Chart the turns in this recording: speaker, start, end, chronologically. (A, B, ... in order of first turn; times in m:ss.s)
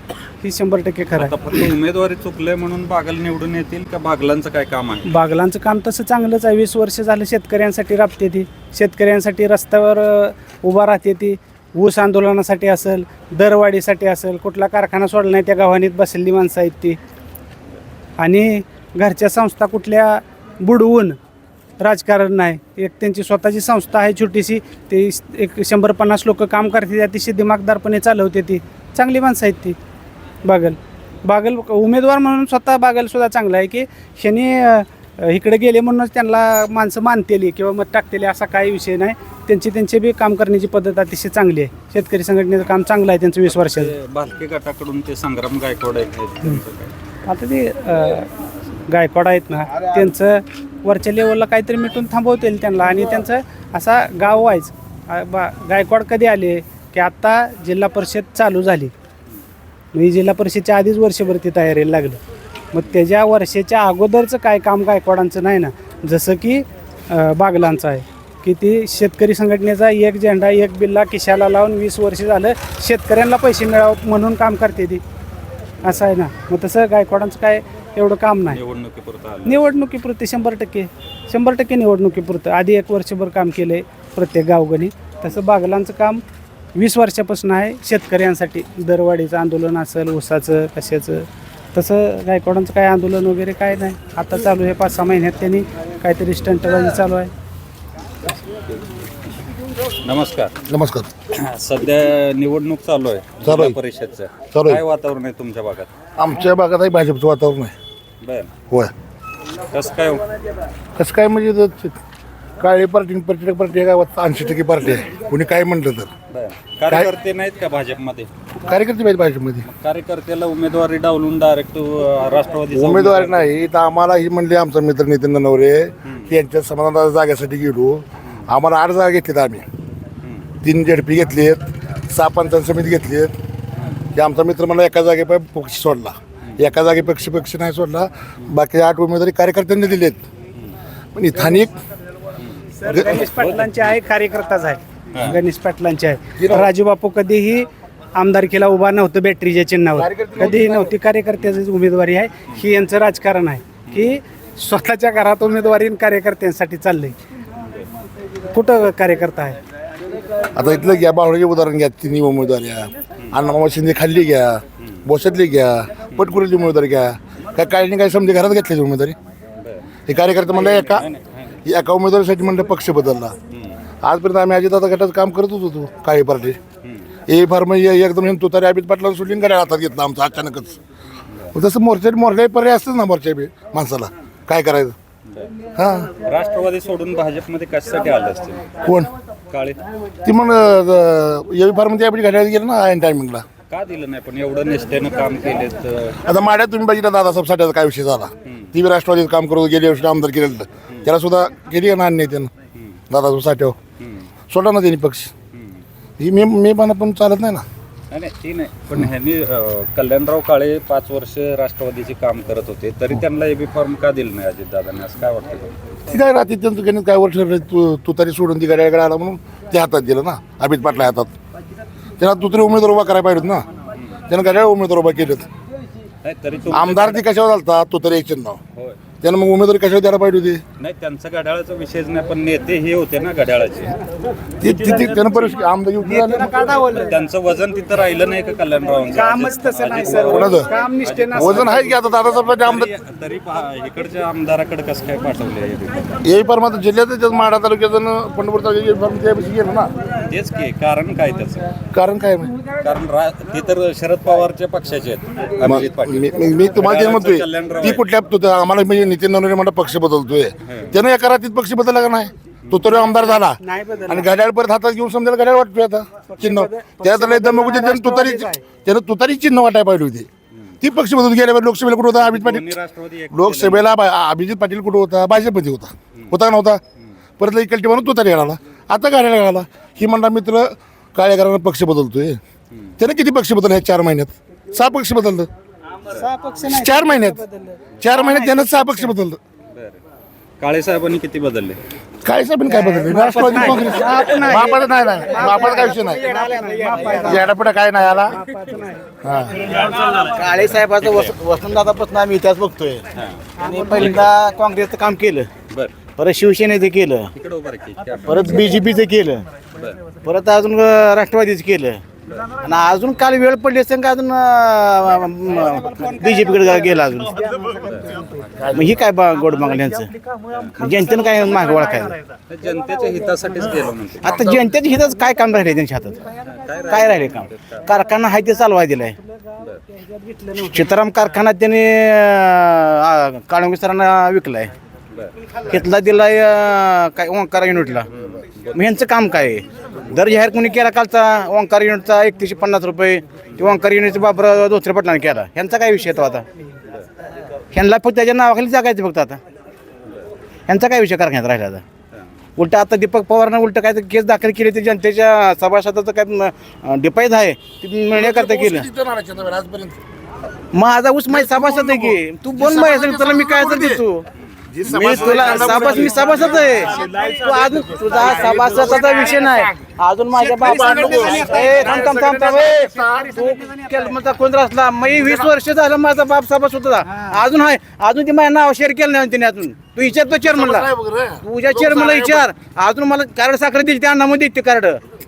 0:00.4-0:01.3 A
0:01.1-0:05.1 B
0:05.0-0:17.0 A
0:18.2-0:21.2 A
0:21.8-0:29.8 A
0:30.4-0:43.9 A
0:43.5-0:46.9 B
0:47.2-0:48.3 A
0:48.9-0:58.9 A
0:59.9-1:02.2 A
1:02.7-1:15.0 A
1:15.8-1:18.6 A
1:18.5-1:19.6 B
1:19.4-1:26.2 A
1:26.7-1:37.3 A
1:40.0-1:40.5 B
1:40.7-1:41.1 C
1:41.4-1:45.9 B
1:43.4-1:43.8 C
1:44.5-1:44.8 C
1:46.2-1:47.7 C
1:48.2-1:48.5 B
1:49.7-1:50.2 B
1:51.0-1:52.0 C
1:52.6-1:56.1 C
1:56.3-1:58.3 B
1:58.7-1:59.6 C
1:59.6-2:03.5 B
2:02.7-2:09.6 C
2:06.0-2:06.3 B
2:10.6-2:13.3 C
2:14.2-2:20.2 C
2:21.1-2:21.7 C
2:22.8-2:37.1 A
2:22.9-2:23.2 C
2:23.2-2:23.8 B
2:26.4-2:26.7 C
2:30.0-2:30.9 C
2:38.5-2:39.6 A
2:40.6-2:49.2 C
2:49.6-2:49.9 B
2:50.1-2:51.0 C
2:50.5-2:51.6 B
2:51.6-2:53.3 C
2:54.0-2:56.6 C
2:57.3-3:00.8 C
3:01.5-3:04.9 C
3:05.8-3:06.1 C
3:06.2-3:08.6 B
3:08.8-3:09.1 C
3:09.5-3:09.8 B
3:10.2-3:13.4 C
3:13.7-3:16.2 B
3:16.3-3:22.5 C
3:23.1-3:23.8 C
3:24.0-3:24.3 B
3:24.5-3:25.3 C
3:25.5-3:25.8 B
3:26.2-3:27.6 C
3:28.1-3:35.7 B
3:36.1-3:41.3 C
3:42.2-3:43.6 C
3:44.3-3:45.5 C
3:46.2-3:47.2 B
3:46.7-3:48.6 C
3:49.2-3:50.6 C
3:50.8-3:53.9 B
3:54.6-3:56.5 C
3:54.6-3:55.1 A
3:56.0-3:57.1 A
3:57.0-4:01.8 B
3:59.1-4:01.9 A
4:00.2-4:00.7 C
4:01.3-4:02.9 C
4:02.6-4:06.1 B
4:06.2-4:09.9 C
4:10.3-4:11.7 B
4:11.9-4:12.5 C
4:12.8-4:18.0 B
4:15.6-4:23.6 C
4:20.7-4:21.0 B
4:22.9-4:24.3 A
4:24.1-4:30.3 C
4:26.3-4:28.6 A
4:30.8-4:32.7 C
4:32.2-4:33.9 B
4:33.3-4:36.8 C
4:37.4-4:42.4 C
4:43.0-4:45.5 C
4:46.0-4:49.1 A
4:46.7-4:47.4 C
4:48.0-4:49.4 C
4:50.6-4:51.8 B
4:52.2-4:56.2 C
4:52.7-4:59.1 A
4:56.2-4:57.4 D
4:57.2-4:58.4 C
4:59.2-4:59.6 C
4:59.7-5:03.0 D
5:00.6-5:01.4 B
5:03.6-5:05.5 D
5:03.7-5:04.0 A
5:04.0-5:04.3 B
5:06.2-5:07.3 D
5:07.4-5:08.6 B
5:08.2-5:09.4 D
5:10.2-5:12.0 D
5:12.2-5:12.6 B
5:12.6-5:17.4 D
5:15.8-5:18.2 A
5:17.8-5:18.8 B
5:18.7-5:20.1 D
5:20.5-5:20.9 B
5:20.8-5:22.2 D
5:22.5-5:24.4 B
5:24.2-5:26.2 D
5:26.5-5:27.9 B
5:26.9-5:29.2 D
5:29.9-5:31.0 A
5:30.7-5:34.7 D
5:35.7-5:38.1 D
5:38.2-5:38.8 B
5:38.7-5:46.4 D
5:47.7-5:49.4 D
5:50.7-5:51.8 D
5:52.6-5:58.8 D
5:58.1-6:00.0 C
6:00.7-6:04.2 D
6:01.3-6:04.0 C
6:04.7-6:07.3 C
6:04.8-6:06.9 B
6:05.1-6:12.7 D
6:07.0-6:07.7 A
6:08.2-6:09.7 C
6:10.4-6:13.4 C
6:10.6-6:12.0 A
6:12.8-6:14.1 A
6:13.3-6:20.9 D
6:20.5-6:22.4 C
6:21.4-6:25.0 D